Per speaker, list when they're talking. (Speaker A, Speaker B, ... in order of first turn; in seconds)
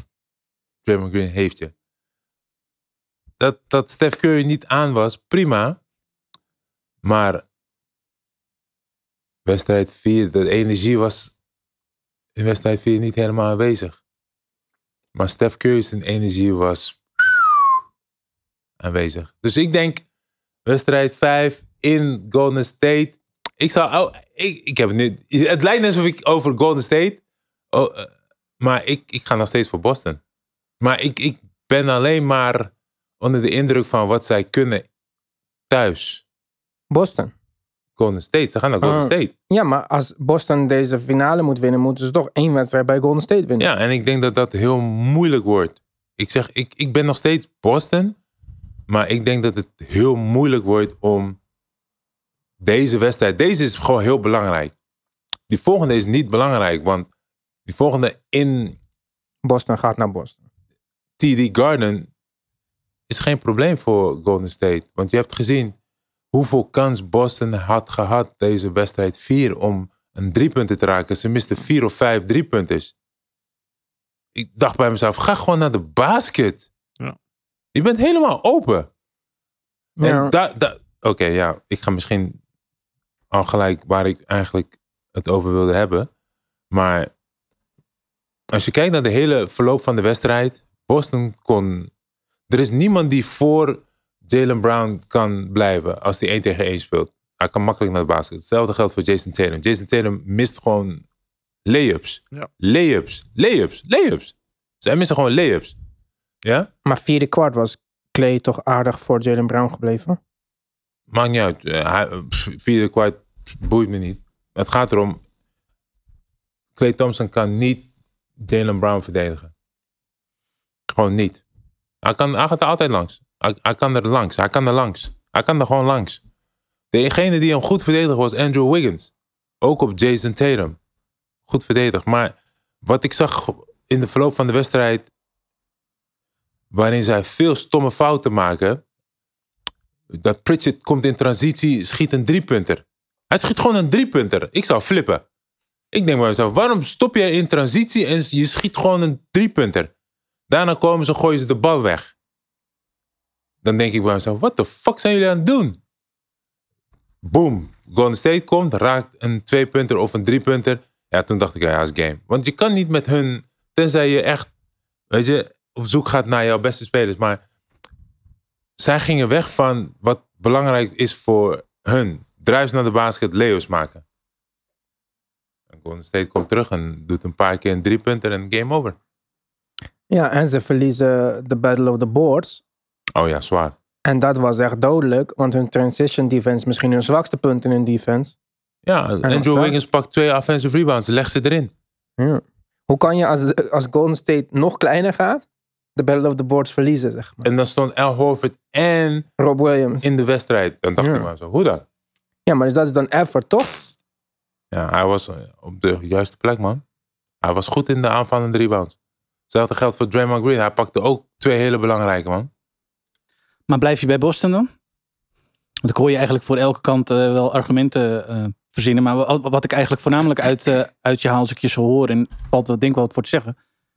Speaker A: 0.8-1.7, 3.4-5.8, 7.0-7.4, 9.4-11.3, 12.3-14.0, 15.1-17.7, 18.8-20.0, 20.6-27.2, 27.7-30.2, 30.8-34.9, 35.7-36.2, 38.0-39.3, 43.6-48.2, 48.9-51.4, 52.6-54.7, 55.5-57.1, 57.6-58.8, 61.2-62.1, 63.1-65.7, 66.3-72.9, 74.3-76.7, 77.7-78.9, 80.0-82.4, 83.3-86.1, 86.7-87.1, 88.5-91.9, 92.5-101.0, 101.7-105.7, 106.4-106.7, 111.1-115.2, 116.8-117.9, 118.4-119.5, 120.9-121.4, 122.0-126.2, 126.9-130.8, 131.5-135.1, 136.7-138.8, 140.1-145.2, 145.9-149.9, 150.5-152.1, 153.6-155.8, 157.2-164.5, 165.1-167.4, 168.8-174.0, 175.7-178.9, 183.1-183.7, 188.8-191.7, 197.4-199.3, 200.0-201.8, 204.7-206.8, 207.4-208.9, 209.5-212.5
Speaker B: 36.9-37.3, 38.8-43.7, 59.4-60.4, 80.0-80.3, 106.8-110.2, 180.1-182.6, 184.0-188.3, 189.2-189.7, 192.2-195.4, 195.9-197.5, 199.4-200.1, 201.0-201.3, 202.4-203.9
Speaker C: 213.7-214.7, 215.8-223.6